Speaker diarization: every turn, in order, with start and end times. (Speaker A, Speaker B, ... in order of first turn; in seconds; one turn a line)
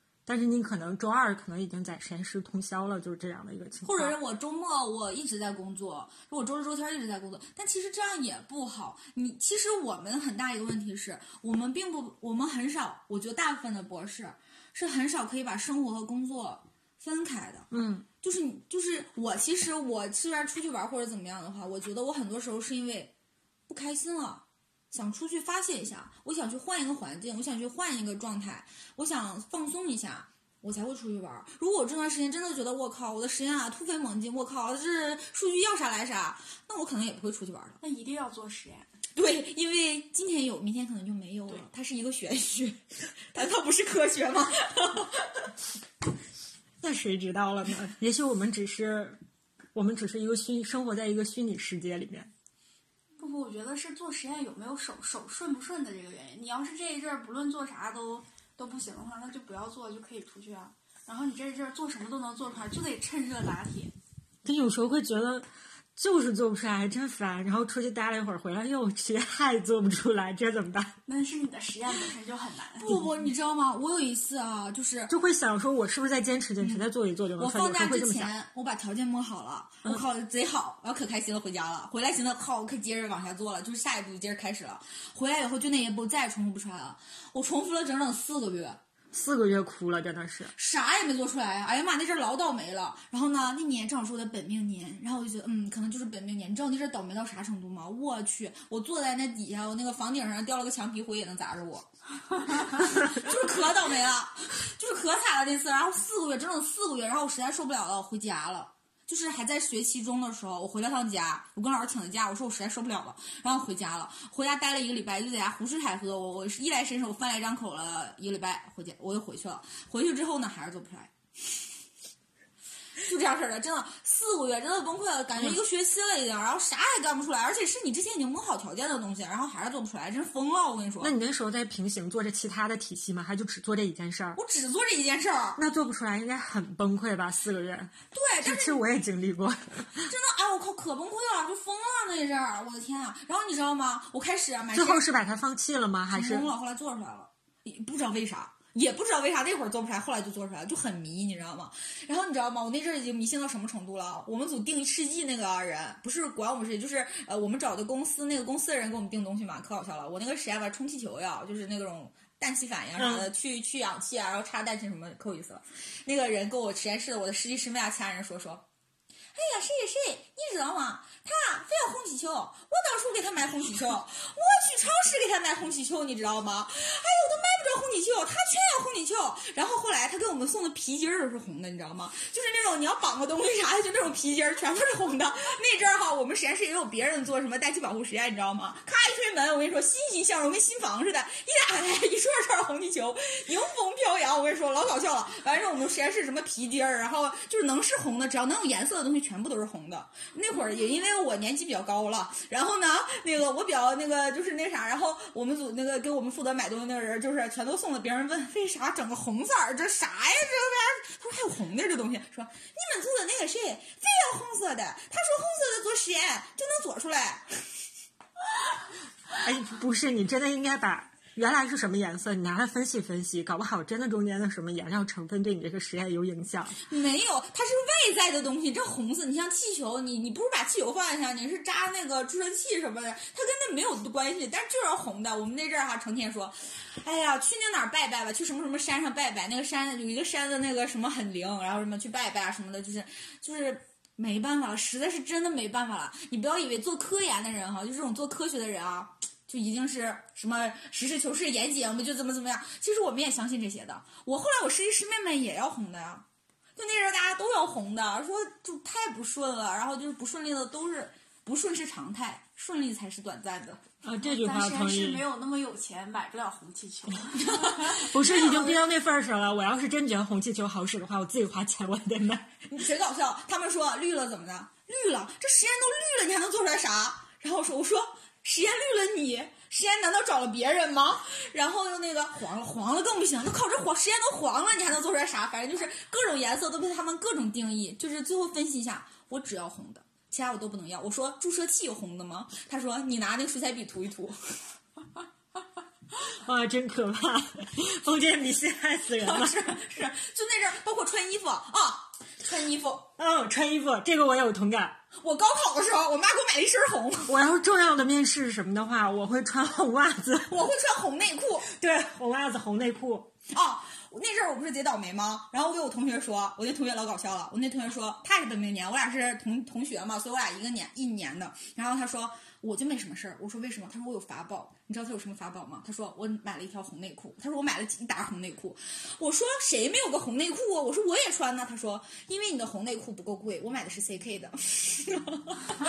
Speaker A: 0.2-4.2
Speaker B: 3.8-17.7
Speaker A: 17.7-18.1
Speaker B: 18.2-23.1
Speaker B: 23.7-37.8
Speaker C: 37.8-38.9
Speaker B: 39.1-45.5
Speaker A: 46.8-49.2
Speaker A: 49.7-52.3
Speaker C: 53.2-63.9
Speaker A: 64.4-71.0
Speaker C: 71.0-73.0
Speaker B: 72.8-75.1
Speaker A: 72.9-73.2
Speaker A: 75.1-78.3
Speaker B: 76.6-76.8
Speaker B: 77.4-88.8
Speaker A: 89.1-90.5
Speaker B: 90.5-121.1
Speaker B: 123.0-131.1
Speaker A: 125.3-125.6
Speaker A: 131.0-134.4
Speaker B: 134.3-135.6
Speaker A: 135.6-140.1
Speaker B: 138.1-138.8
Speaker B: 140.0-145.1
Speaker A: 144.7-146.5
Speaker B: 146.1-168.7
Speaker A: 163.0-163.3
Speaker B: 169.3-217.7
Speaker A: 219.4-226.8
Speaker B: 226.8-256.2
Speaker B: 256.8-263.8
Speaker A: 264.0-265.2
Speaker C: 264.2-268.4
Speaker A: 267.7-272.6
Speaker B: 272.6-294.4
Speaker A: 296.3-299.6
Speaker B: 299.2-303.1
Speaker A: 303.2-305.0
Speaker B: 305.1-307.4
Speaker A: 307.3-310.7
Speaker B: 310.5-311.7
Speaker A: 311.7-313.3
Speaker B: 313.5-335.8